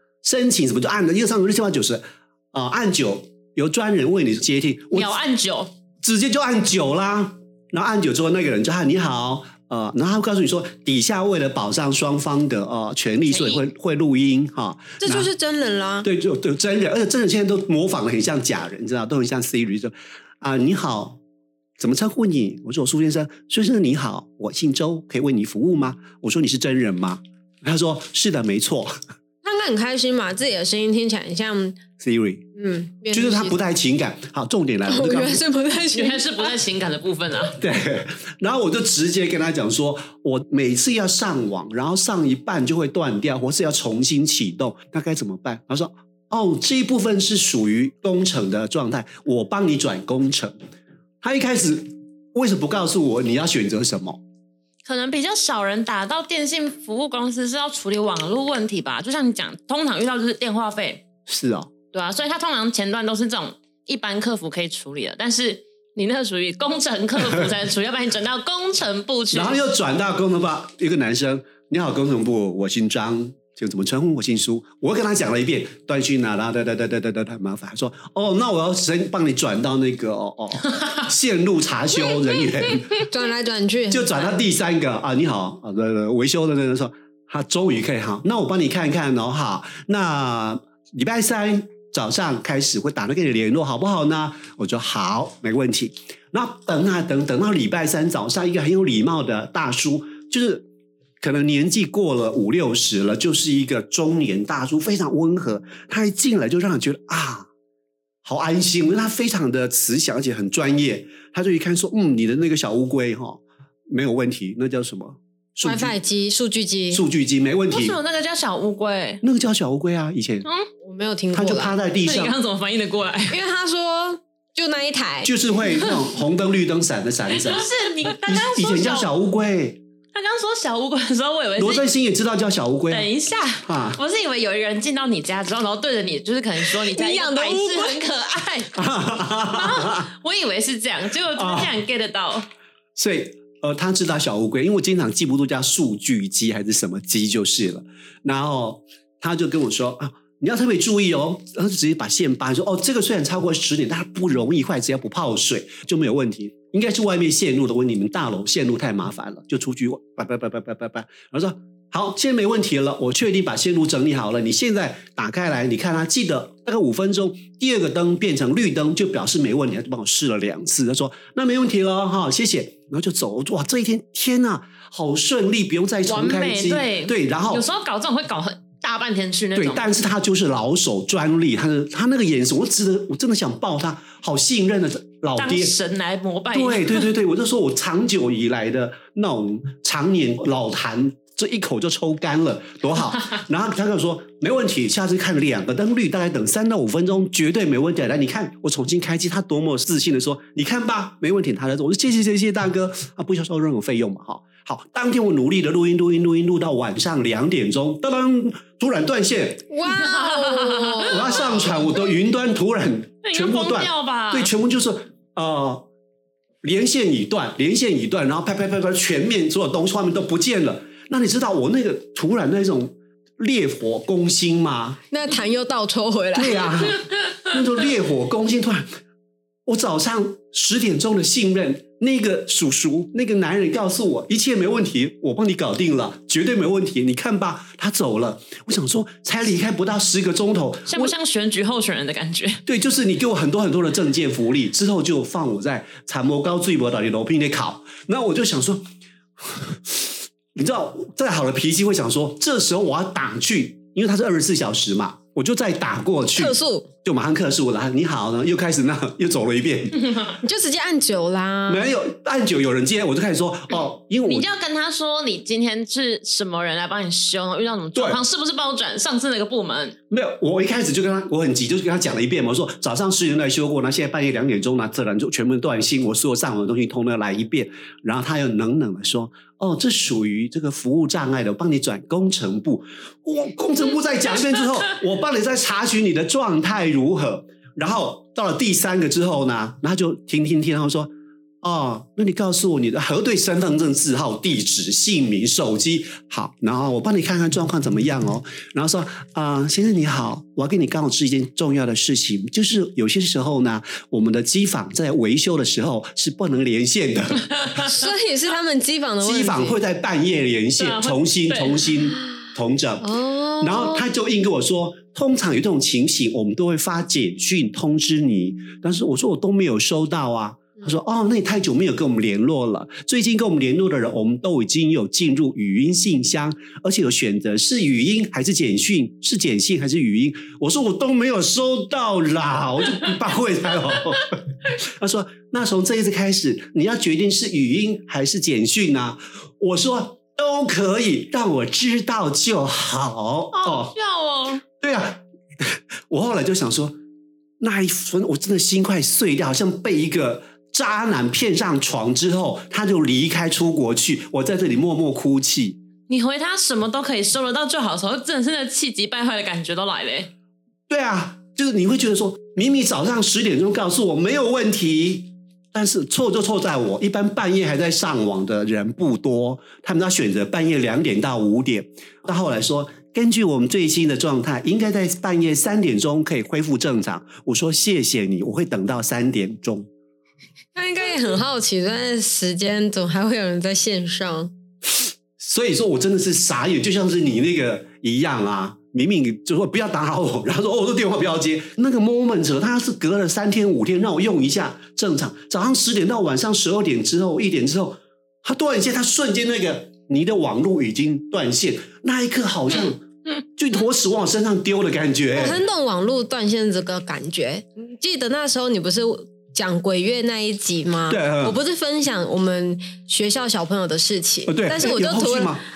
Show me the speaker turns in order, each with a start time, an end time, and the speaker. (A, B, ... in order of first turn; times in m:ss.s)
0:00.2-0:05.1 A
0:04.9-0:05.7 B
0:06.0-0:15.3 A
0:13.2-0:13.6 B
0:15.0-0:16.1 C
0:16.0-0:21.2 A
0:21.8-0:28.9 A
0:29.4-0:31.8 C
0:32.0-0:32.4 A
0:32.5-0:33.6 C
0:33.1-0:35.4 A
0:34.9-0:36.6 C
0:35.9-0:37.6 B
0:37.5-0:50.5 A
0:51.2-0:54.2 A
0:54.8-1:01.0 B
1:01.3-1:01.7 A
1:01.9-1:09.6 B
1:09.3-1:23.0 A
1:23.0-1:24.4 C
1:23.9-1:40.6 A
1:41.2-1:47.5 A
1:48.2-1:55.9 A
1:55.6-1:57.0 C
1:56.9-1:58.0 A
1:57.7-1:59.2 B
1:59.2-2:00.5 A
2:00.4-2:00.7 B
2:00.8-2:01.7 C
2:01.3-2:02.4 A
2:02.0-2:03.4 B
2:03.3-2:05.3 C
2:05.2-2:09.8 A
2:07.3-2:09.1 B
2:10.1-2:11.9 B
2:11.6-2:13.1 A
2:12.9-2:18.8 B
2:13.6-2:14.0 A
2:16.6-2:18.0 C
2:18.7-2:20.1 A
2:19.5-2:22.4 B
2:21.3-2:21.7 A
2:23.0-2:57.6 A
2:56.0-2:59.8 B
2:59.5-3:05.7 A
3:05.4-3:07.1 B
3:06.5-3:29.7 A
3:29.7-3:31.7 C
3:29.9-3:31.6 B
3:31.0-3:35.8 A
3:33.2-3:34.5 B
3:36.6-3:45.0 A
3:45.1-3:46.8 C
3:46.3-3:48.9 A
3:49.6-4:01.1 A
4:00.9-4:02.6 B
4:02.6-4:08.8 A
4:09.4-4:20.2 A
4:16.4-4:16.9 C
4:20.4-4:21.9 C
4:21.7-4:24.5 A
4:24.2-4:30.0 B
4:27.9-4:28.2 A
4:30.1-4:51.1 A
4:51.6-5:07.9 A
5:07.8-5:09.8 C
5:09.2-5:43.9 A
5:10.8-5:11.9 B
5:13.0-5:14.0 C
5:43.5-5:44.6 B
5:44.8-5:47.0 A
5:47.6-5:55.8 A
5:56.1-6:00.3 B
6:00.9-6:19.9 A
6:20.7-6:24.5 C
6:25.4-6:45.6 A
6:45.3-6:55.6 C
6:51.1-6:51.6 A
6:54.5-6:55.6 A